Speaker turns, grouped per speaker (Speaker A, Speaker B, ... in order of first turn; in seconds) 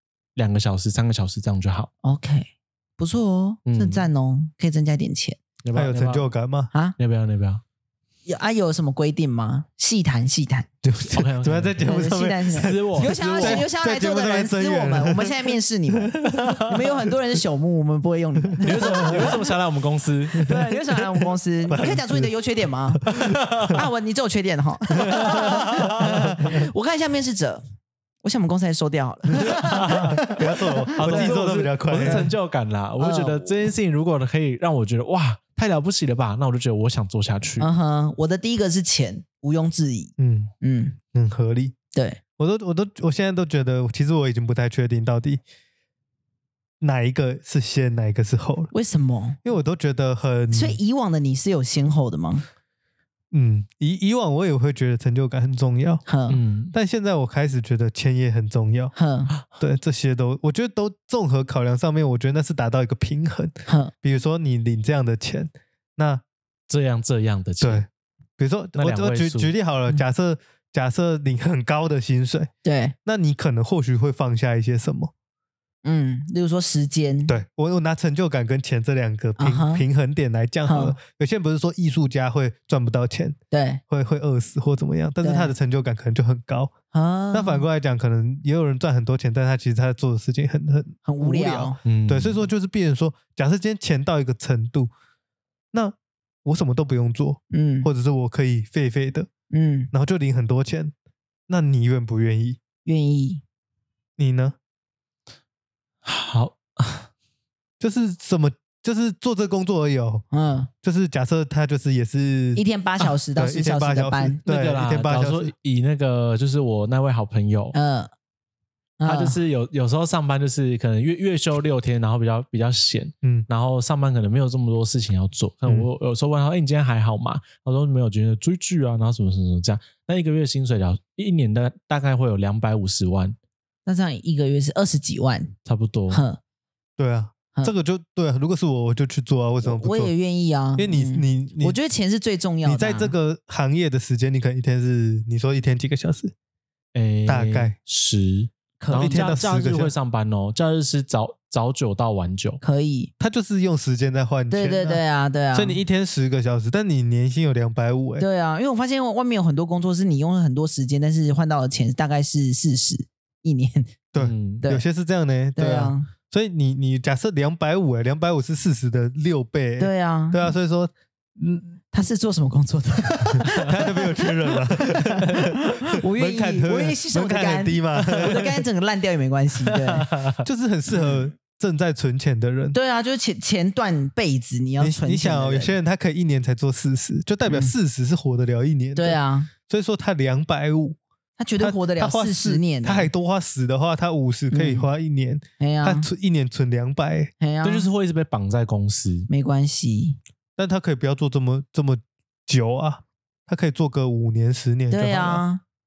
Speaker A: 0.3-1.9, 3.6-4.1, 5.6-6.3, 7.0-7.6, 11.1-13.7, 16.3-16.6, 18.6-20.6, 23.1-23.8, 25.3-26.1, 29.6-30.3, 30.9-37.7, 56.3-56.7, 66.7-67.8, 68.8-69.5, 91.8-92.4, 106.0-107.1, 114.5-117.7, 119.0-133.3, 135.7-136.2, 146.9-152.6, 164.2-164.6, 179.7-180.4, 197.6-199.3
Speaker B: 2.0-5.4, 8.2-10.7, 11.8-19.4, 20.4-23.1, 23.7-27.6, 28.2-31.4, 32.0-32.3, 33.0-33.5, 37.6-41.0, 41.9-42.2, 48.7-49.4, 50.5-52.4, 56.0-56.4, 58.9-59.3, 63.7-63.9, 72.6-72.9, 75.8-77.3, 79.4-79.8, 80.7-81.0, 83.5-83.8, 85.2-85.5, 86.9-87.6, 91.0-91.8, 97.5-97.9, 99.5-99.9, 102.8-103.4, 110.3-110.7, 112.5-114.4, 117.7-118.1, 119.0-119.4, 133.8-135.5, 136.1-136.4, 139.6-143.1, 148.8-149.4, 152.6-153.1, 154.5-155.8, 158.2-163.9, 165.6-166.1, 169.8-170.5, 171.9-180.1, 180.9-181.3, 182.7-185.8, 187.5-187.7, 188.9-189.5, 191.4-193.1, 194.5-194.9, 195.6-196.1, 197.4-197.9, 199.3-200.2, 204.9-205.6
Speaker C: 5.7-6.7, 10.8-16.6, 18.6-19.3, 21.7-22.3, 23.0-23.8, 25.0-26.6, 29.5-32.3, 40.2-40.5, 41.1-41.7, 42.4-45.4, 46.8-48.7, 49.4-50.8, 53.3-56.0, 56.7-58.9, 59.6-66.2, 67.6-67.9, 68.4-72.5, 73.0-75.1, 77.3-83.3, 83.9-86.7, 87.3-94.9, 95.7-99.3, 99.9-100.9, 101.5-102.6, 104.2-104.5, 107.8-110.2, 110.8-112.6, 113.3-115.5, 137.0-140.1, 140.8-141.8, 142.6-146.3, 147.2-147.7, 148.9-149.9, 153.2-155.0, 155.5-158.2, 164.1-171.8, 173.5-178.5, 180.4-182.8, 184.8-191.0, 191.6-197.3, 200.6-205.4